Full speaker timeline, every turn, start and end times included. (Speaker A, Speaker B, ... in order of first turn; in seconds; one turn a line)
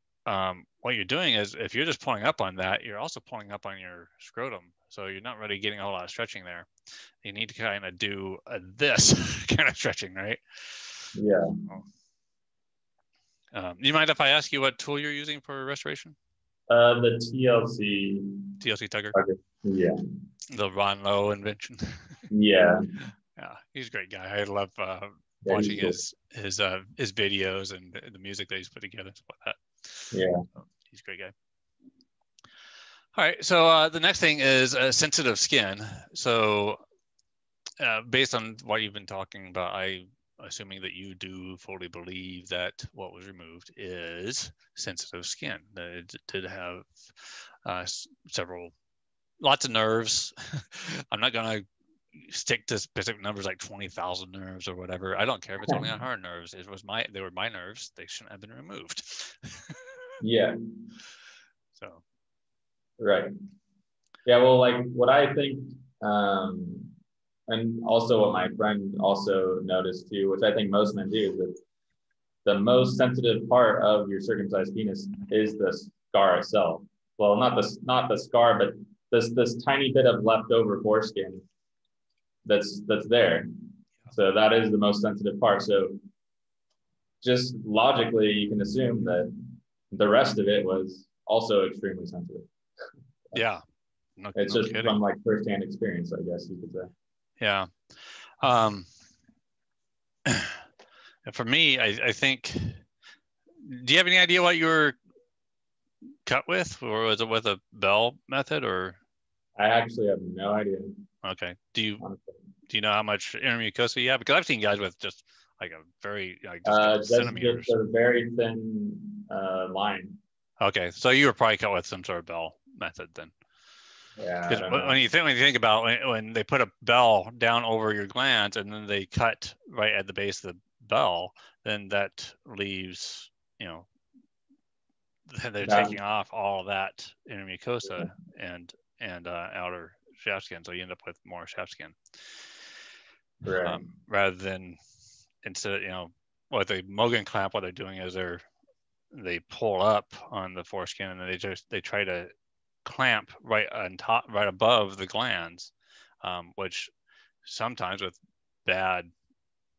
Speaker A: 0.2-6.7
Speaker A: 7.2-11.1
Speaker B: 11.1-11.6
Speaker A: 13.5-16.1
Speaker B: 16.7-18.4
Speaker A: 18.6-19.2
Speaker B: 19.1-20.0
Speaker A: 20.5-22.2
Speaker B: 22.3-22.8
Speaker A: 23.4-30.2
Speaker B: 25.4-26.0
Speaker B: 30.1-30.4
Speaker A: 30.8-31.3
Speaker A: 33.1-36.8
Speaker A: 37.8-48.7
Speaker A: 49.4-59.8
Speaker B: 60.2-60.5
Speaker A: 61.7-62.0
Speaker B: 63.0-63.3
Speaker B: 64.2-66.9
Speaker B: 67.5-71.6
Speaker B: 72.4-81.4
Speaker B: 82.4-83.5
Speaker B: 84.1-86.0
Speaker B: 87.2-89.3
Speaker B: 89.9-92.5
Speaker A: 93.3-93.6
Speaker A: 94.2-95.0
Speaker B: 94.3-96.9
Speaker A: 97.4-97.7
Speaker A: 98.4-98.9
Speaker A: 100.2-100.6
Speaker A: 101.2-102.8
Speaker A: 103.6-105.0
Speaker A: 106.2-109.0
Speaker B: 109.6-111.0
Speaker A: 111.2-112.0
Speaker B: 112.0-112.3
Speaker A: 112.7-117.7
Speaker B: 116.6-120.2
Speaker A: 120.6-123.3
Speaker B: 124.2-125.0
Speaker A: 124.5-133.9
Speaker A: 135.3-142.0
Speaker B: 135.6-136.0
Speaker B: 143.4-143.8
Speaker A: 143.6-144.8
Speaker A: 145.4-148.4
Speaker A: 149.1-152.3
Speaker A: 152.8-155.7
Speaker A: 156.2-156.9
Speaker A: 157.4-159.1